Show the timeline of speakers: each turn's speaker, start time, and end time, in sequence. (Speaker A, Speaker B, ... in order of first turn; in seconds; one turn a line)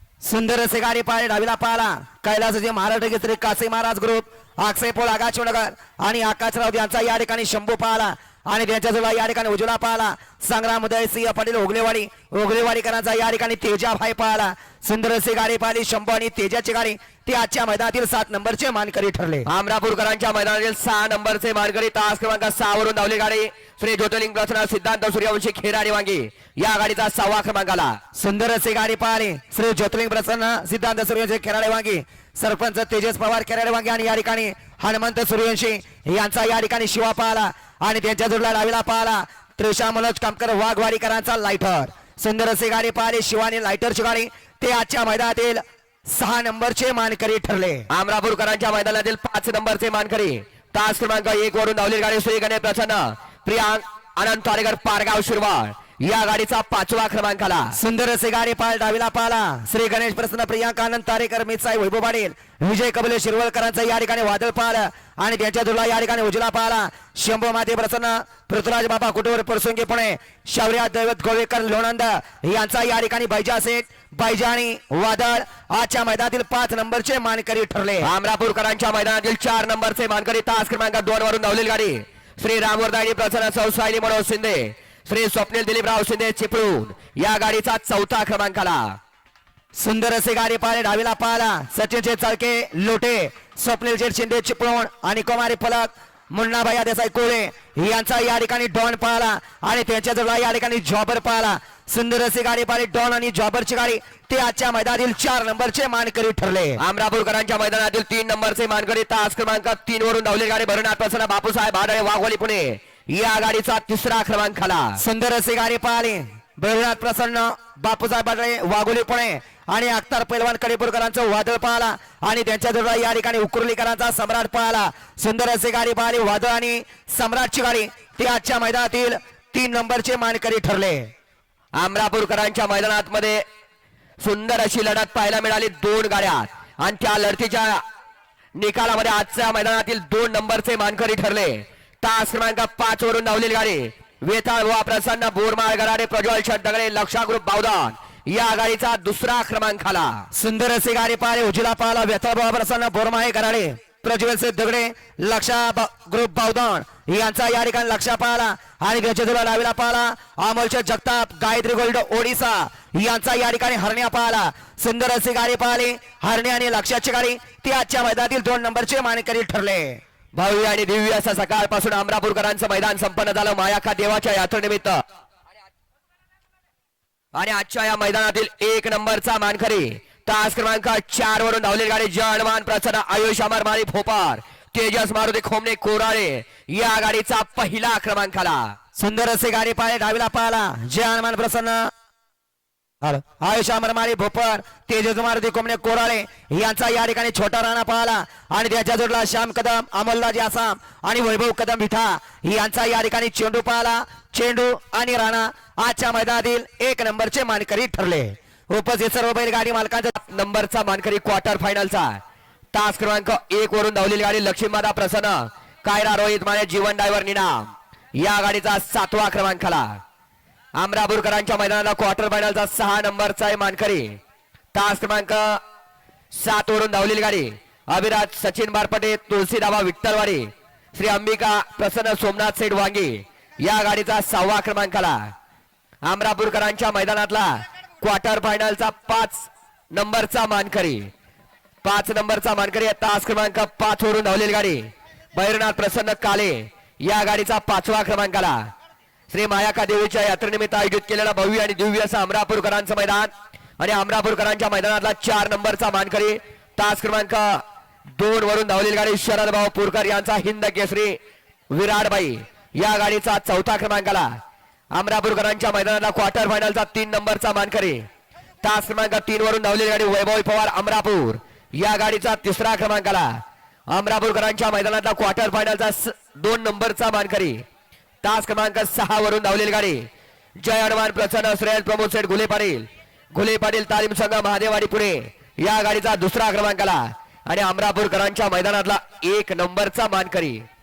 Speaker A: 0.2-19.5
Speaker B: 19.5-28.0
Speaker A: 28.1-47.9
Speaker B: 47.9-57.8
Speaker A: 57.8-78.1
Speaker B: 78.0-89.0
Speaker A: 89.8-106.8
Speaker B: 106.8-115.0
Speaker A: 115.0-131.1
Speaker B: 131.8-133.4
Speaker B: 134.2-137.8
Speaker B: 138.6-150.2
Speaker A: 150.3-170.0
Speaker B: 170.3-175.0
Speaker B: 177.3-188.8
Speaker A: 189.0-191.9
Speaker A: 193.0-210.2
Speaker B: 210.2-212.2
Speaker B: 212.7-220.0
Speaker B: 220.8-224.2
Speaker B: 224.7-225.6
Speaker B: 226.3-235.3
Speaker B: 236.0-241.1
Speaker B: 241.8-248.6
Speaker B: 249.3-257.6
Speaker B: 258.2-261.2
Speaker B: 261.7-264.3
Speaker B: 264.9-268.1
Speaker B: 268.6-273.4
Speaker B: 273.9-277.6
Speaker B: 278.2-280.1
Speaker B: 280.6-290.6